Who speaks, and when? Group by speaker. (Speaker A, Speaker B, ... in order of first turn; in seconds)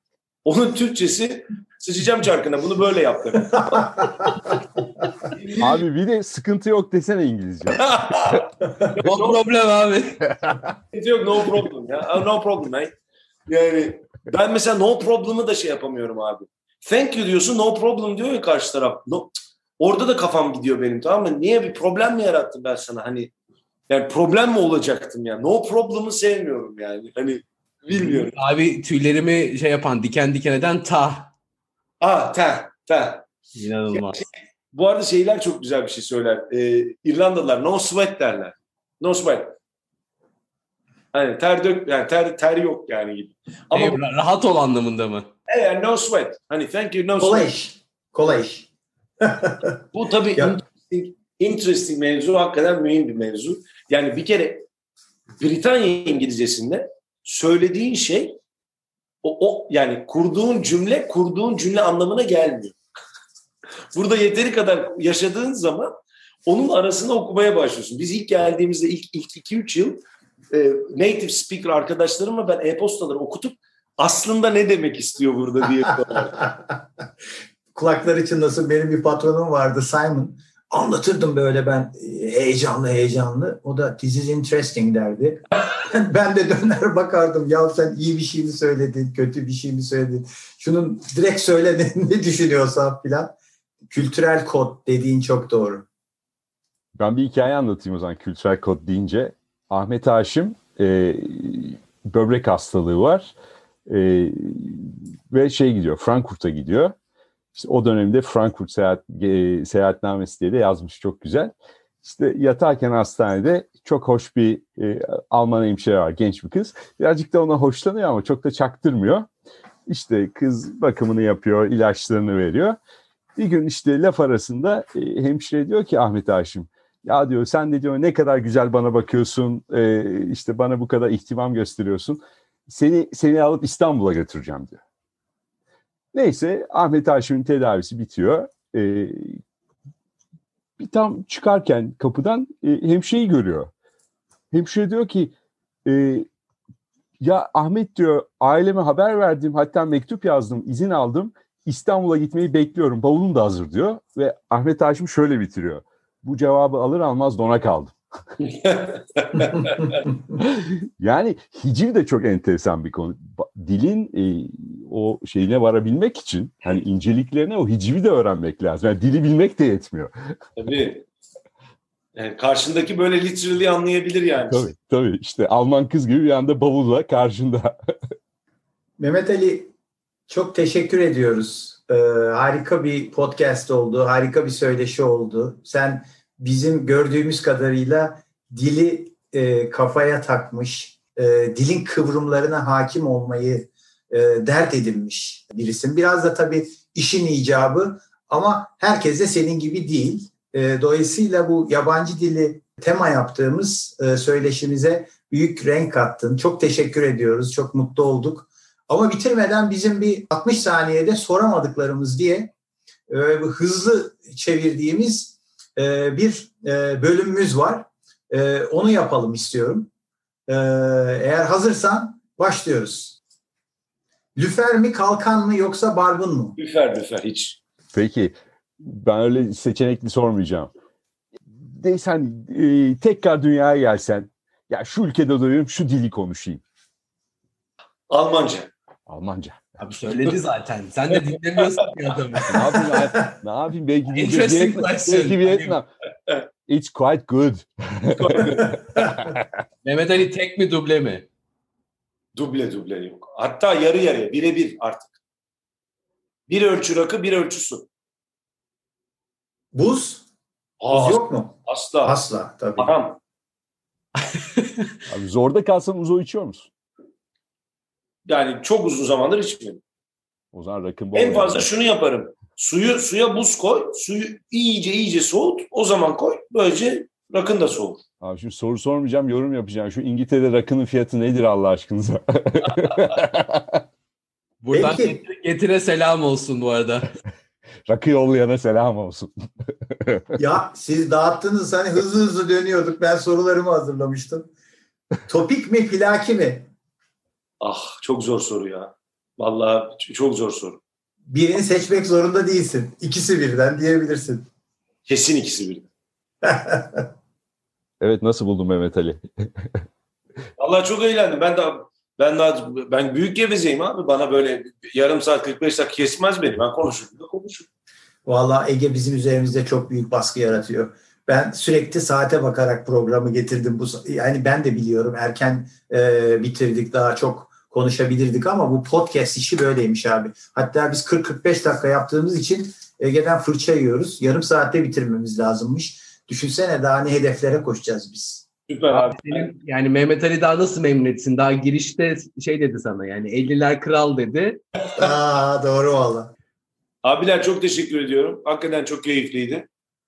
Speaker A: 0.4-4.6, 5.3-5.8, 7.8-9.4, 10.9-12.9, 13.5-23.3, 23.9-28.4, 32.0-33.3, 33.9-39.5, 41.1-44.0, 45.5-47.5, 49.9-54.6, 55.4-58.4, 59.2-62.8, 63.9-65.9, 66.5-70.0, 70.5-76.4, 158.4-160.0, 170.6-171.1, 172.2-174.7, 226.6-227.6, 238.1-238.7, 248.1-248.8, 252.3-255.2, 256.5-257.9, 260.8-262.2, 262.8-263.2, 268.3-269.8, 271.1-278.0, 297.6-300.8, 305.1-305.9, 310.6-317.7, 338.7-339.5, 347.0-349.7
Speaker B: 5.6-8.4, 10.3-10.7, 97.0-103.3, 103.9-106.9, 107.5-119.3, 119.9-122.8, 123.3-134.8, 136.1-139.4, 140.8-143.7, 144.5-145.3, 145.8-146.3, 147.2-157.9, 160.4-170.1, 174.5-177.8, 227.9-230.7, 231.5-236.6, 239.1-239.6, 242.5-245.9, 246.7-249.4, 265.1-266.7, 270.5-271.7, 278.2-283.8, 287.9-290.4, 308.0-309.8
Speaker C: 9.0-10.2, 27.9-31.3, 33.6-34.2, 43.7-45.3, 239.8-242.8, 244.1-245.8, 249.8-251.2, 284.6-287.1, 338.9-344.6
Speaker D: 47.2-48.7, 49.2-49.8, 77.7-93.3, 93.9-95.8, 179.0-179.7, 180.3-212.5, 213.1-219.9, 220.5-223.2, 224.3-226.6, 259.7-260.2, 260.9-262.9, 284.7-285.2, 290.4-294.5, 295.3-296.7, 301.3-304.4, 306.4-307.1, 318.2-338.4, 345.0-346.3